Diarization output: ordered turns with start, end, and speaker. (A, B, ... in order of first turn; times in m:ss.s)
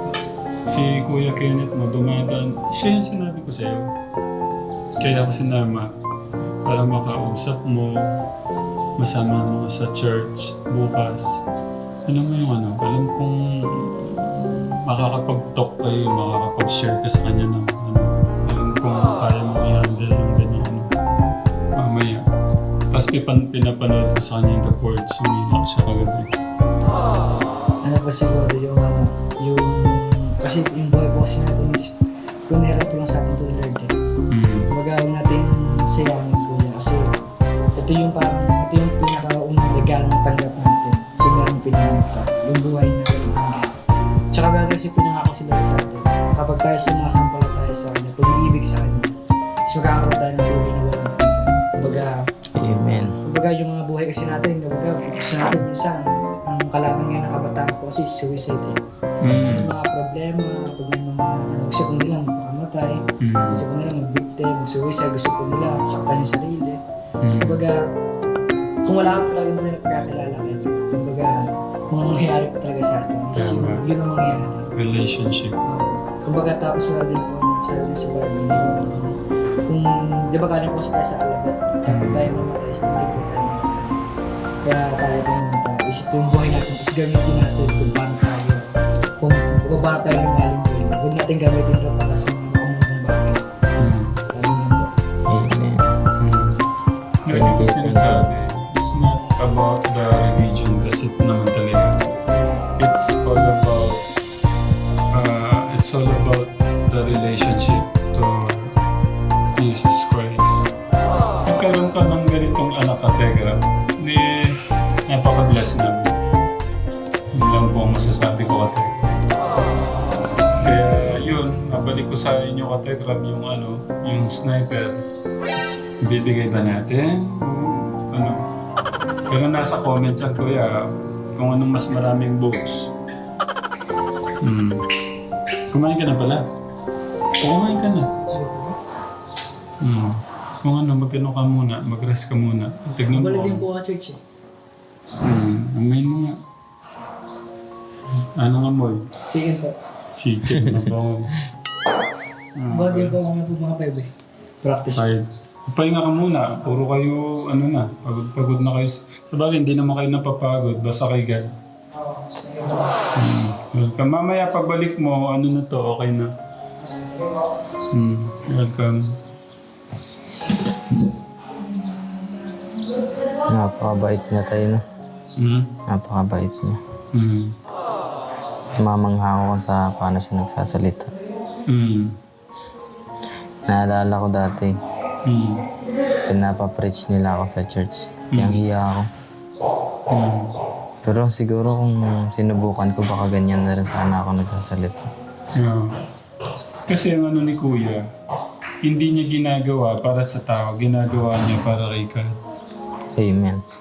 0:00.7-0:03.9 A
0:05.0-0:05.9 A
0:06.6-0:08.2 A
0:09.0-0:11.4 A
0:12.1-0:20.9 A
0:21.8-0:22.2 A
0:22.9-0:26.3 A
0:27.8-0:31.9 B
0:32.5-0:33.9 B
0:34.3-0:34.7 A
0:34.7-0:37.0 B
0:37.8-0:43.7 B
0:44.3-0:49.1 B
0:49.7-0:52.1 B
0:52.6-0:53.2 C
0:53.2-0:58.8 B
0:59.2-0:59.7 A
0:59.3-1:03.0 B
1:03.2-1:03.6 A
1:03.5-1:06.8 B
1:07.2-1:07.6 A
1:07.4-1:07.8 B
1:08.9-1:14.7 B
1:13.4-1:13.8 A
1:14.8-1:15.6 A
1:15.6-1:19.1 B
1:19.7-1:23.9 B
1:21.9-1:22.3 A
1:24.6-1:28.6 B
1:29.2-1:33.4 B
1:33.8-1:34.2 A
1:34.3-1:34.9 B
1:35.3-1:35.8 C
1:36.2-1:36.6 A
1:37.3-1:42.0 A
1:37.3-1:38.2 C
1:42.8-1:44.0 A
1:45.1-1:48.7 A
1:49.6-1:50.7 A
1:51.5-1:54.4 A
1:55.1-1:56.1 A
1:57.3-1:58.9 A
2:00.6-2:05.0 A
2:06.0-2:08.4 A
2:09.3-2:12.9 A
2:14.4-2:14.8 A
2:15.7-2:16.4 A
2:17.4-2:18.2 A
2:18.3-2:18.8 B
2:19.8-2:23.6 A
2:23.1-2:24.2 B
2:25.2-2:26.4 A
2:28.4-2:29.0 A
2:29.3-2:29.8 B
2:30.2-2:31.4 A
2:30.5-2:30.9 C
2:32.6-2:33.2 A
2:32.7-2:34.1 B
2:34.6-2:35.0 B
2:35.0-2:41.5 A
2:42.1-2:42.9 B
2:43.2-2:46.3 A
2:47.9-2:49.1 A
2:53.5-2:54.8 C
2:55.4-2:55.7 A
2:55.9-2:56.8 C
2:57.1-2:57.5 A
2:58.8-3:01.1 C
3:01.7-3:02.1 A
3:03.7-3:04.7 C
3:05.3-3:05.6 A
3:06.3-3:09.1 C
3:08.3-3:08.6 A
3:10.1-3:10.5 A
3:11.0-3:15.1 C
3:15.6-3:15.9 A
3:16.9-3:18.0 A
3:18.8-3:22.4 A
3:23.2-3:23.6 C